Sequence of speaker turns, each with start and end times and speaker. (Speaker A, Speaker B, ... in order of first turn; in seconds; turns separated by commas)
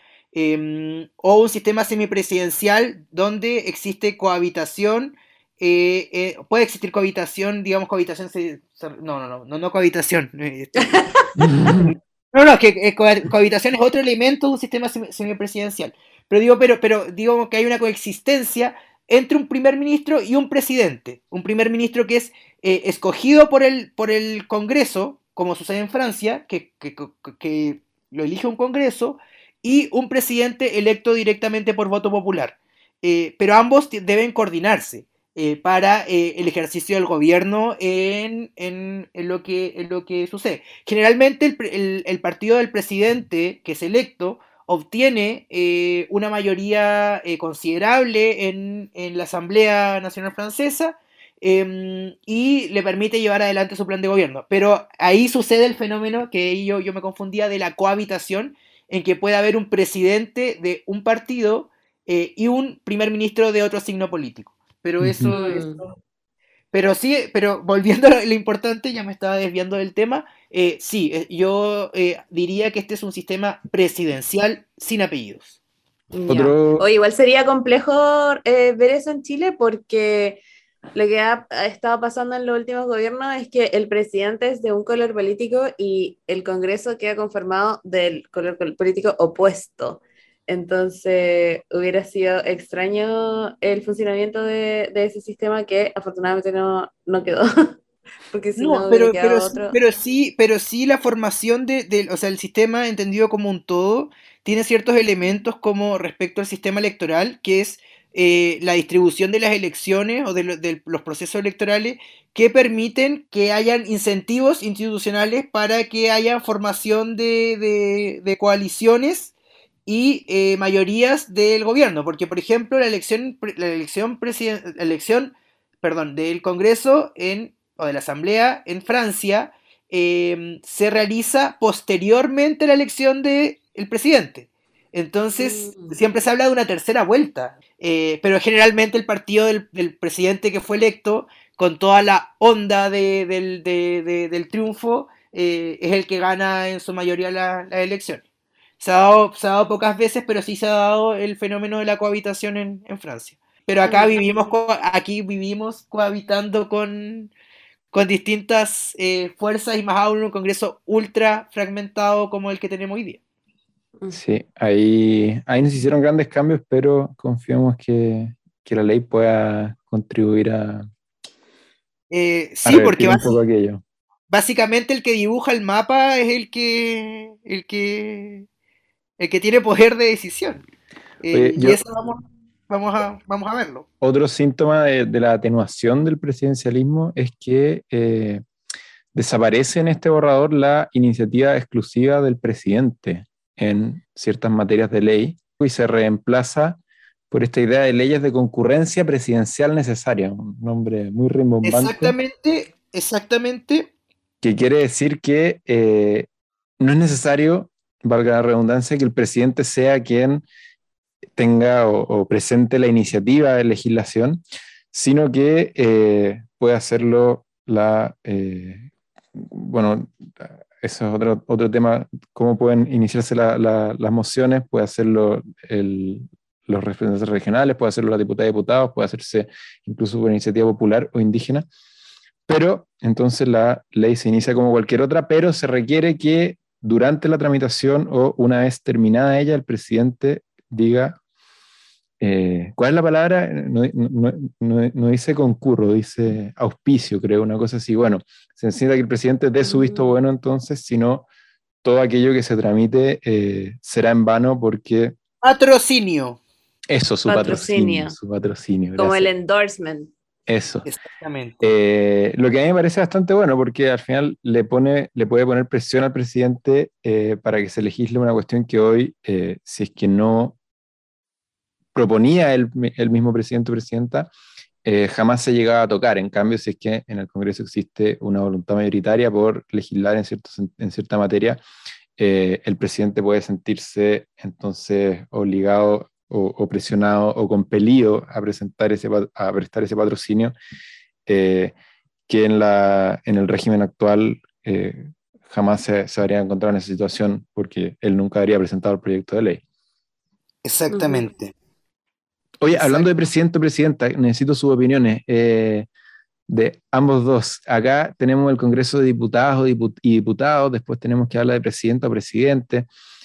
Speaker A: 0.3-11.1, Speaker B: 10.8-11.2, Speaker C: 11.4-11.9, Speaker A: 11.7-66.0, Speaker C: 65.0-65.3, Speaker B: 65.3-65.8, Speaker A: 66.7-75.5, Speaker B: 76.1-80.4, Speaker C: 76.3-76.9, Speaker B: 80.9-97.4, Speaker B: 98.3-99.8, Speaker A: 98.6-119.3, Speaker A: 119.9-148.2, Speaker B: 135.4-136.0, Speaker A: 148.8-157.3, Speaker B: 153.8-154.2, Speaker A: 157.9-163.2, Speaker C: 164.1-170.9, Speaker A: 172.1-173.2, Speaker C: 172.7-173.8, Speaker A: 174.3-178.4, Speaker A: 179.2-180.6, Speaker A: 181.2-183.9, Speaker C: 181.3-181.8, Speaker C: 184.0-188.4, Speaker C: 189.1-202.2, Speaker A: 201.6-203.9, Speaker C: 204.4-206.3, Speaker C: 206.8-210.4, Speaker C: 211.4-214.4, Speaker C: 214.9-231.7, Speaker C: 232.5-241.2, Speaker C: 242.2-251.3, Speaker B: 249.6-250.2, Speaker C: 251.8-255.1, Speaker A: 255.4-256.4, Speaker C: 256.9-259.3, Speaker B: 257.2-258.1, Speaker B: 259.0-260.1, Speaker C: 260.5-260.9, Speaker A: 260.9-261.6, Speaker C: 261.6-270.6, Speaker C: 271.9-274.3, Speaker C: 274.8-281.6, Speaker C: 282.2-290.6, Speaker C: 291.3-291.7, Speaker C: 292.3-299.6, Speaker A: 300.6-301.5, Speaker B: 300.9-301.2, Speaker C: 302.6-305.9, Speaker A: 302.7-303.1, Speaker C: 306.5-312.9